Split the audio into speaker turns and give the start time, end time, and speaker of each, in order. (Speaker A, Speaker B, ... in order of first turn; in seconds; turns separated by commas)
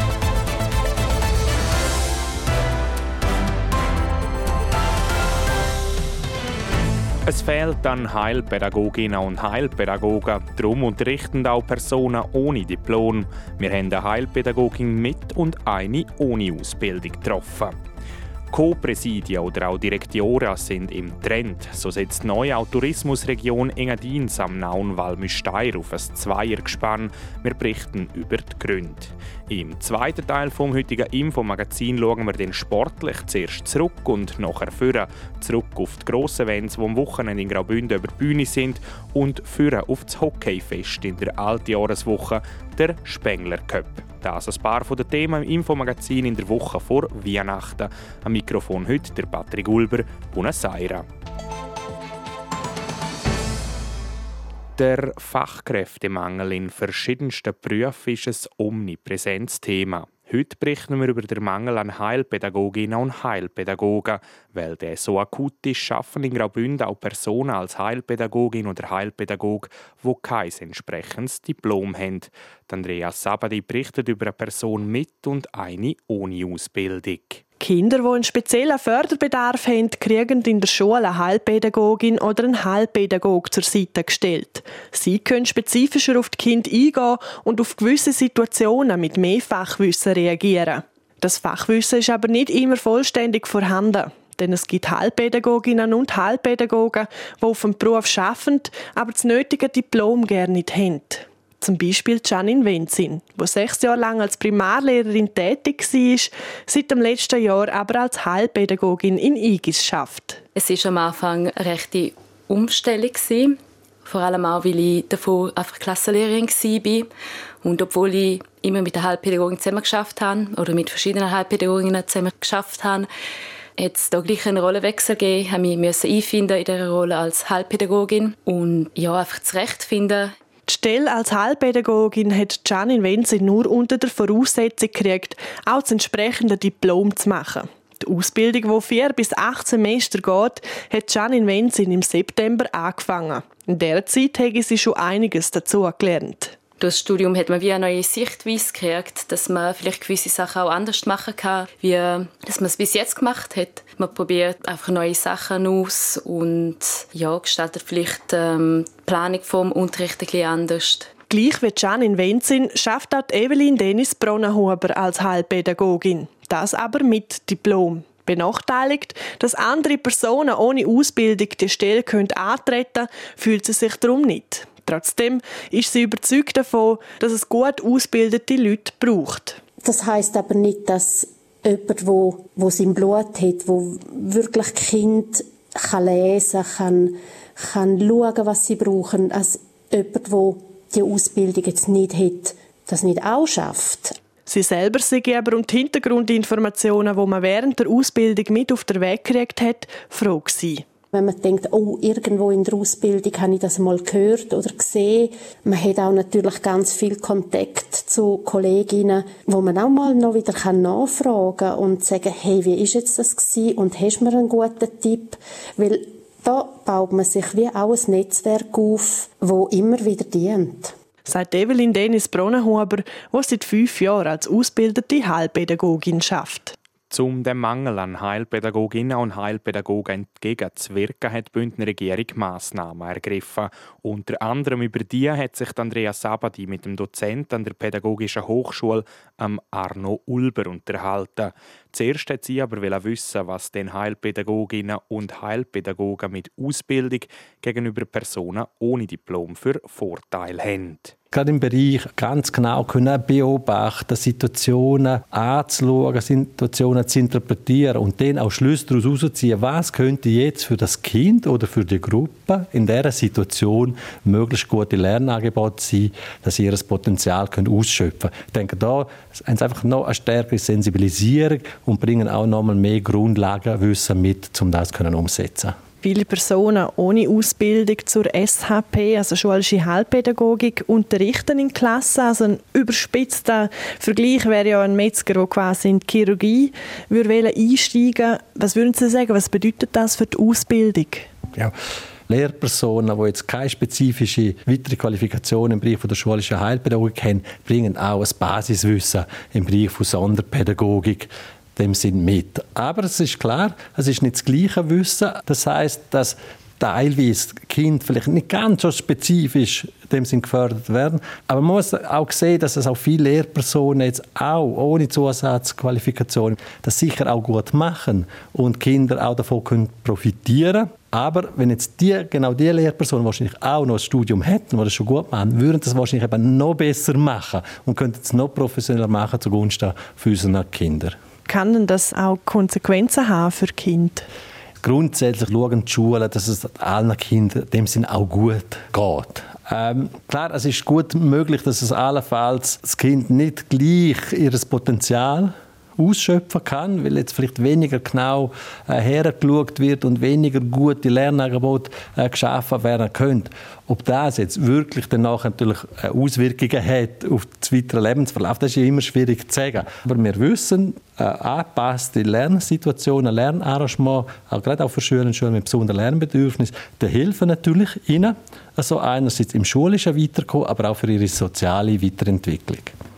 Speaker A: 7.2-17.7, Speaker A: 18.5-51.0, Speaker A: 54.8-77.4, Speaker B: 77.6-110.4, Speaker C: 110.5-117.1, Speaker C: 117.6-123.1, Speaker C: 123.8-130.3, Speaker B: 130.7-146.6, Speaker C: 146.8-161.1, Speaker B: 161.3-179.6, Speaker D: 179.8-194.2, Speaker B: 194.5-200.8, Speaker D: 201.1-220.9, Speaker B: 221.2-226.8, Speaker A: 227.1-251.2, Speaker E: 251.3-275.8, Speaker B: 276.0-291.3, Speaker E: 292.3-331.2, Speaker B: 331.5-334.2, Speaker E: 334.8-372.9